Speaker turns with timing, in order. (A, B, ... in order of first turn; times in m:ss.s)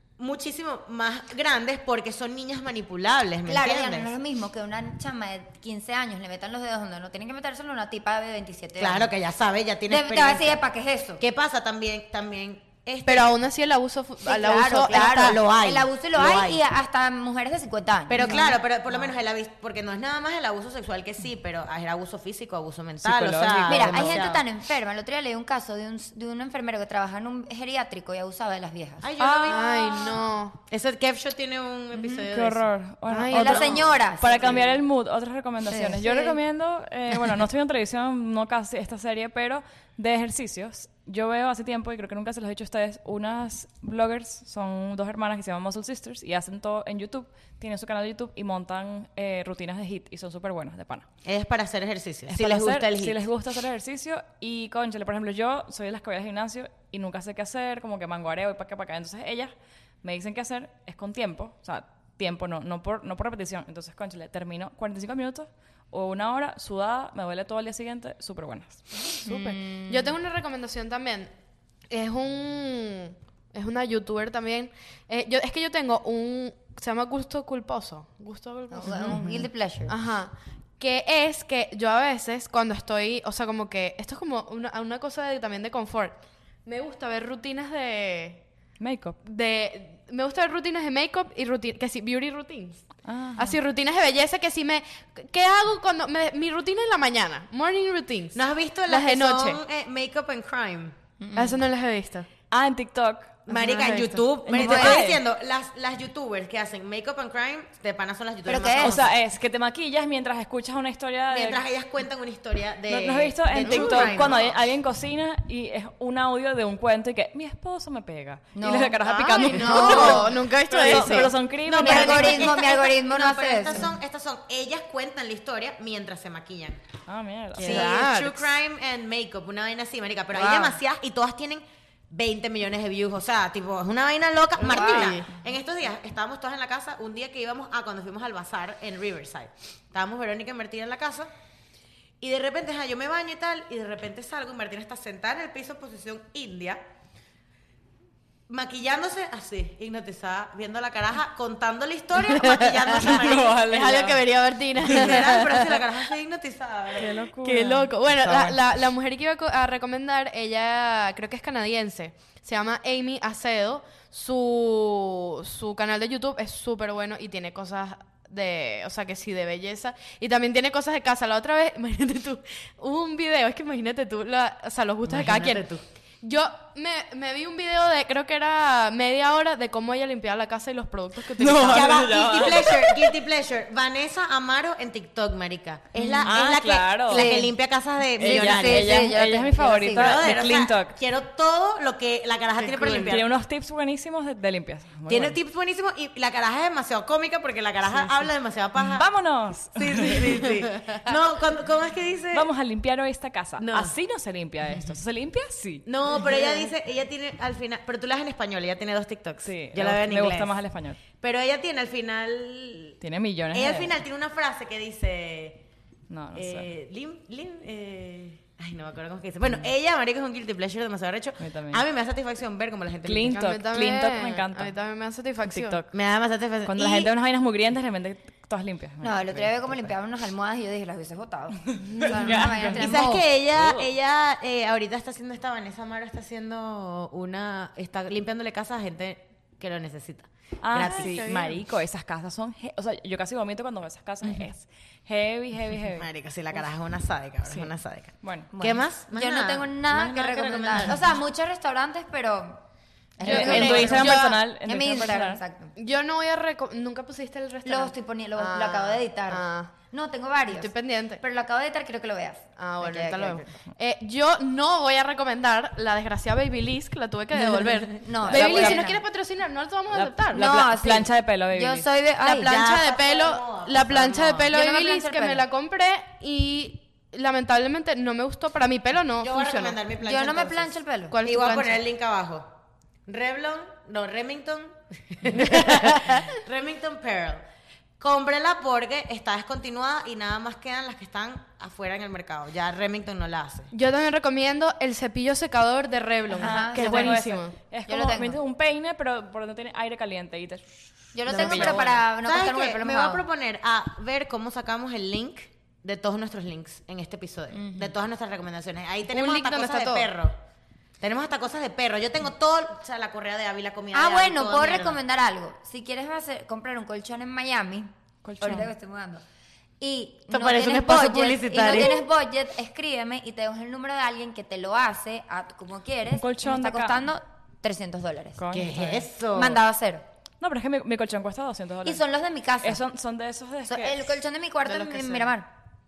0:00.2-0:04.1 A
0:03.4-0:09.1 B
0:08.8-0:10.6 A
0:09.9-0:11.2 B
0:11.2-0:13.3 A
0:13.0-0:15.4 C
0:14.2-0:18.6 B
0:14.7-0:16.6 A
0:18.1-0:24.4 A
0:18.2-0:18.5 C
0:23.0-0:24.3 D
0:23.6-0:29.1 B
0:29.0-0:30.0 A
0:29.2-0:29.6 D
0:29.3-0:30.6 C
0:30.7-0:32.7 A
0:31.9-0:32.2 B
0:32.2-0:51.1 D
0:33.1-0:33.5 C
0:33.2-0:34.7 B
0:33.4-0:34.7 A
0:35.7-0:36.4 B
0:51.2-0:53.2 A
0:52.3-0:59.5 D
1:00.0-1:09.1 D
1:09.2-1:11.3 C
1:09.2-1:10.2 B
1:11.9-1:28.4 C
1:18.7-1:19.9 B
1:19.1-1:19.4 D
1:28.8-1:29.2 D
1:29.2-1:32.8 C
1:33.0-1:33.6 D
1:33.4-1:39.6 C
1:38.3-1:41.0 A
1:41.2-1:41.6 B
1:41.4-1:42.3 C
1:42.5-1:43.9 D
1:43.5-1:49.2 A
1:43.5-1:44.3 C
1:44.4-1:45.2 D
1:44.5-1:45.0 B
1:48.4-1:49.1 B
1:48.8-1:51.6 D
1:51.3-1:54.6 A
1:52.9-2:02.6 D
1:53.6-1:54.3 C
1:58.5-2:00.3 B
1:59.4-2:01.3 C
1:59.6-2:00.2 A
2:00.9-2:06.8 A
2:01.7-2:04.0 B
2:07.1-2:07.9 D
2:07.6-2:08.5 C
2:07.6-2:21.3 A
2:10.3-2:10.8 B
2:14.6-2:15.3 C
2:14.7-2:15.2 B
2:22.2-2:26.8 A
2:28.5-2:34.2 A
2:32.3-2:35.8 C
2:33.0-2:34.1 D
2:34.8-2:37.1 A
2:34.9-2:35.1 D
2:37.0-2:38.6 D
2:37.4-2:55.6 C
2:55.1-2:55.8 A
2:56.2-3:02.4 C
3:01.4-3:03.1 D
3:01.6-3:09.0 A
3:06.0-3:06.2 B
3:06.1-3:07.4 D
3:07.1-3:07.5 B
3:08.2-3:11.0 D
3:08.2-3:10.2 B
3:09.9-3:13.3 A
3:12.6-3:13.1 C
3:12.8-3:15.4 D
3:15.1-3:19.0 A
3:17.9-3:18.2 D
3:18.8-3:20.5 D
3:19.7-3:22.5 A
3:22.3-3:26.3 D
3:23.6-3:23.9 A
3:25.8-3:30.6 A
3:29.4-3:31.0 D
3:31.1-3:33.0 A
3:33.0-3:34.0 D
3:33.5-3:35.6 A
3:36.1-3:36.7 D
3:36.3-3:43.4 A
3:41.4-3:41.8 D
3:43.0-3:44.7 D
3:43.3-3:45.8 C
3:45.4-3:45.9 D
3:45.9-3:47.1 A
3:46.6-3:49.9 D
3:49.0-3:53.3 B
3:52.0-3:52.7 C
3:52.0-3:53.9 D
3:52.7-4:01.5 A
4:00.6-4:06.0 D
4:01.0-4:01.4 C
4:06.0-4:11.1 A
4:07.4-4:07.7 D
4:08.2-4:08.5 D
4:08.5-4:12.6 B
4:13.2-4:15.7 B
4:13.2-4:15.4 D
4:13.2-4:14.4 C
4:13.5-4:13.9 A
4:15.8-4:19.7 C
4:17.6-4:23.6 B
4:20.5-4:21.2 C
4:22.6-4:30.6 C
4:28.0-4:29.0 B
4:28.2-4:28.9 D
4:29.9-4:31.9 D
4:30.3-4:32.6 B
4:32.2-4:39.8 C
4:32.3-4:34.5 A
4:34.5-4:35.4 B
4:39.2-4:40.7 A
4:40.0-4:41.1 B
4:41.1-4:41.8 C
4:41.2-4:42.5 A
4:43.0-4:47.4 A
4:48.0-4:53.7 A
4:53.7-4:57.5 C
4:56.4-4:57.2 B
4:56.4-5:00.6 D
4:57.9-4:58.4 B
5:01.1-5:03.2 B
5:01.2-5:01.9 D
5:01.3-5:10.4 A
5:07.5-5:08.0 B
5:09.1-5:10.1 C
5:11.0-5:15.0 A
5:13.9-5:19.2 B
5:18.2-5:18.7 D
5:19.8-5:30.0 B
5:20.3-5:22.0 A
5:26.2-5:27.1 D
5:28.4-5:28.9 D
5:28.5-5:29.6 A
5:30.4-5:32.0 D
5:31.8-5:32.8 B
5:32.6-5:34.1 D
5:33.6-5:35.5 B
5:34.6-5:35.3 C